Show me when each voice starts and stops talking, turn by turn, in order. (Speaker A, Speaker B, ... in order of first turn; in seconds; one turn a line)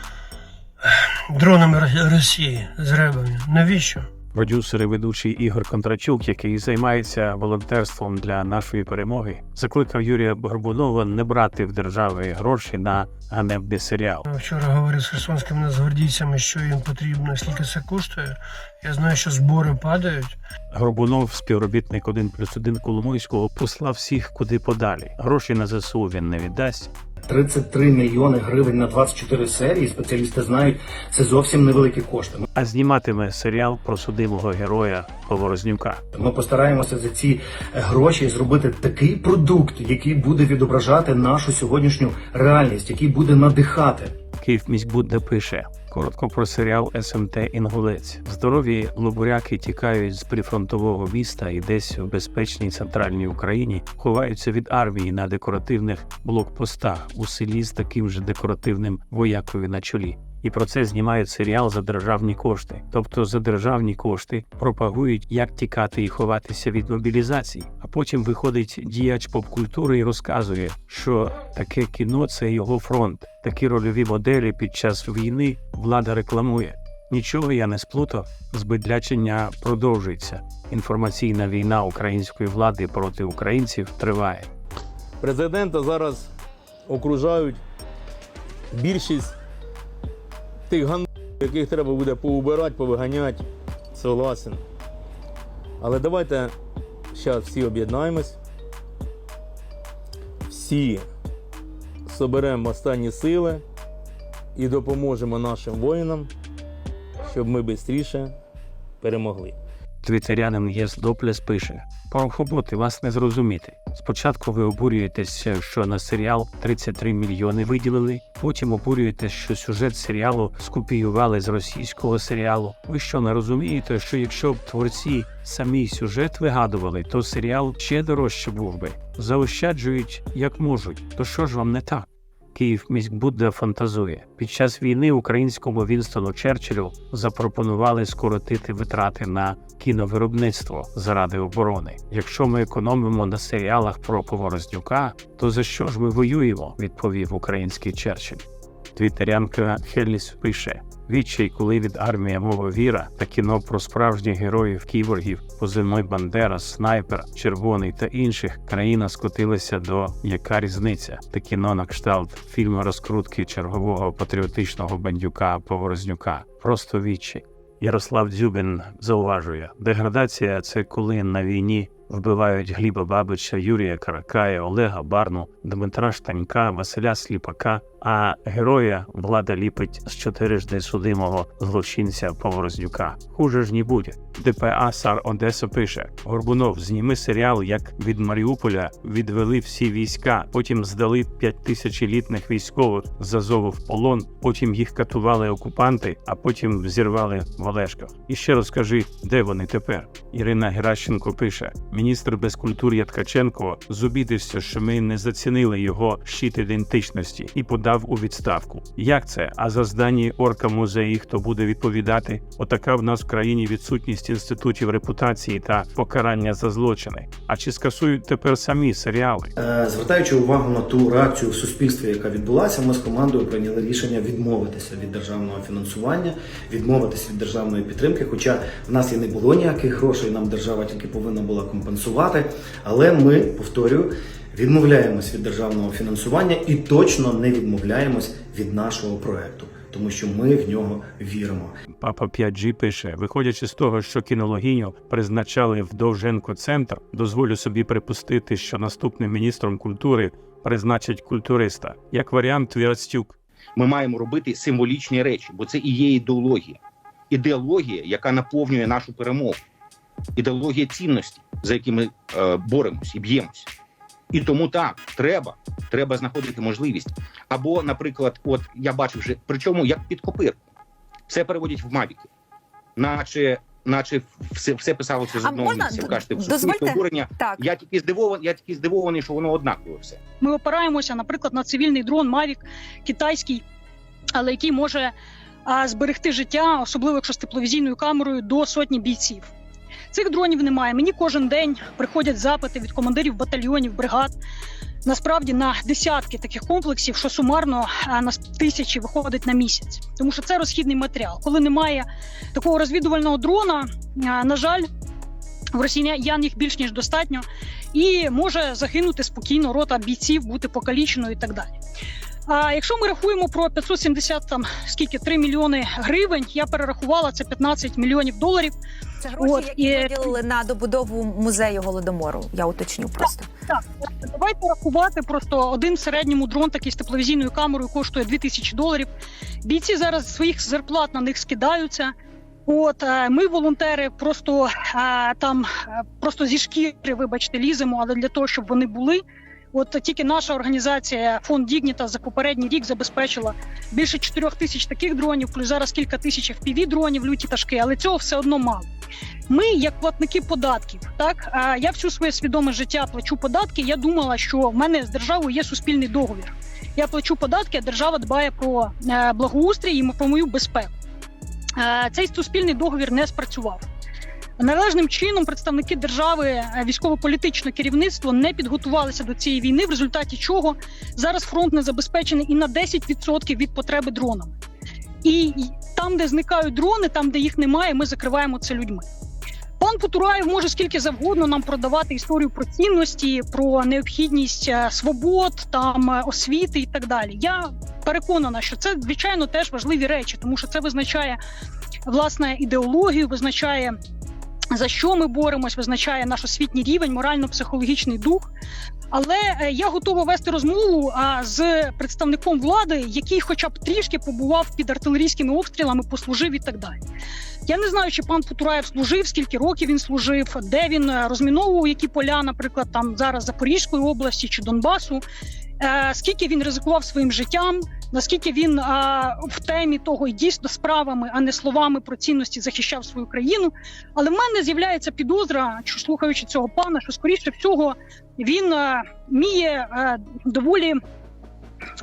Speaker A: 0.8-4.1
Speaker B: 4.3-14.2
Speaker A: 14.3-20.3
Speaker B: 20.7-26.9
Speaker C: 27.3-32.5
Speaker B: 32.5-36.0
Speaker C: 36.1-44.1
Speaker B: 44.4-84.5
Speaker D: 85.2-86.2
Speaker D: 86.9-87.6
Speaker D: 88.7-89.3
Speaker D: 90.7-94.6
Speaker D: 95.8-96.5
Speaker D: 97.1-98.4
Speaker D: 100.5-101.1
Speaker D: 102.1-103.6
Speaker D: 104.5-106.3
Speaker D: 107.2-108.3
Speaker D: 109.0-109.5
Speaker B: 110.0-219.5
Speaker C: 219.6-241.7
Speaker B: 242.0-253.4
Speaker E: 253.8-256.8
Speaker E: 257.3-259.6
Speaker E: 260.4-263.7
Speaker E: 264.3-270.6
Speaker E: 271.3-272.3
Speaker E: 273.0-280.2
Speaker F: 275.4-277.6
Speaker G: 280.4-283.6
Speaker G: 284.4-285.1
Speaker G: 285.7-289.5
Speaker G: 290.1-294.3
Speaker G: 295.1-304.9
Speaker G: 305.7-311.7
Speaker G: 312.5-318.8
Speaker F: 319.2-323.5
Speaker G: 319.3-320.4
Speaker E: 319.4-320.0
Speaker G: 323.7-329.1
Speaker G: 329.6-332.1
Speaker G: 332.7-339.2
Speaker G: 339.7-348.9
Speaker G: 349.5-360.9
Speaker G: 361.8-363.8
Speaker G: 364.6-374.5
Speaker G: 375.2-379.1
Speaker G: 379.8-391.4
Speaker G: 392.1-394.0
Speaker G: 394.7-398.5
Speaker G: 399.1-407.0
Speaker G: 407.7-415.2
Speaker G: 415.8-431.0